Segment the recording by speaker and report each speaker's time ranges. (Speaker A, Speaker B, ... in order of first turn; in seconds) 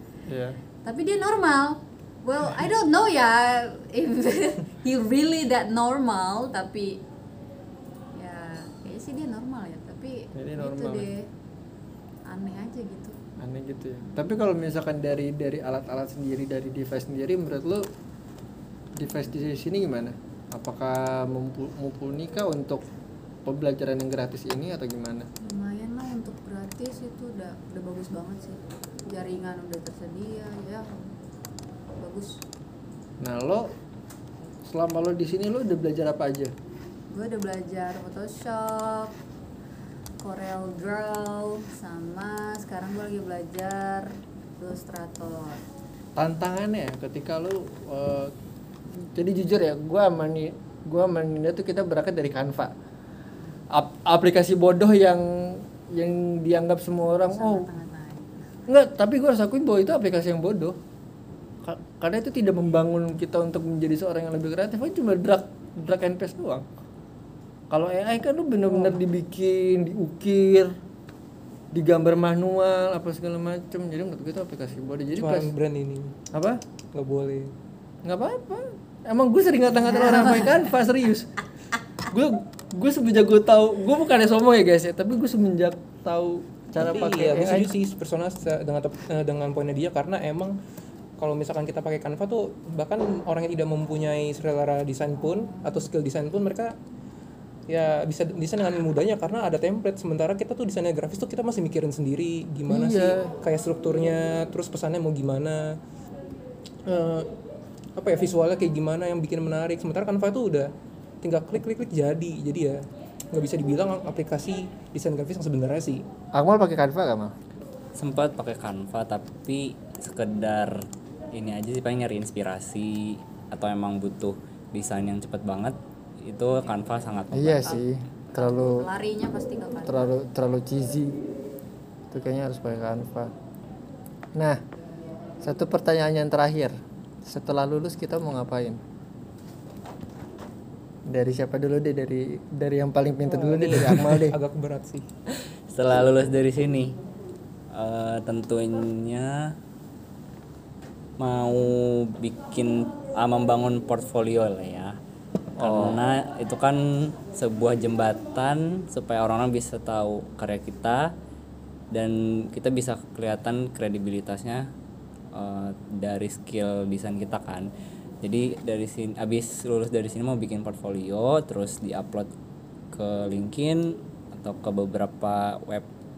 Speaker A: 0.3-0.6, 10.3-11.1, 13.4-17.9, 18.9-22.8, 23.4-25.3, 33.2-33.7, 34.6-36.5, 46.1-48.3, 49.1-52.7, 53.7-57.7, 58.7-60.8, 61.6-66.7, 67.7-70.7, 71.7-75.5, 76.3-76.6, 78.0-81.3, 82.1-87.7, 102.7-103.3, 116.3-117.3, 127.3-128.8, 129.8-131.2, 132.1-133.3, 135.4-138.8, 141.1-144.4, 155.6-156.0
Speaker B: 0.8-7.0, 8.1-11.3, 12.3-13.2, 25.4-31.1, 32.0-32.4, 37.1-39.1, 40.2-45.6, 57.3-58.4, 128.3-130.1
Speaker C: 75.2-76.1, 76.9-77.5, 86.8-90.6, 91.2-96.8, 97.7-105.8, 106.8-107.3, 108.0-110.7, 111.2-116.0, 143.3-145.1
Speaker D: 118.0-127.8, 145.7-147.0, 147.7-149.5, 151.2-155.0, 155.6-161.1, 161.9-164.7, 165.3-167.7, 168.2-172.3, 172.9-175.9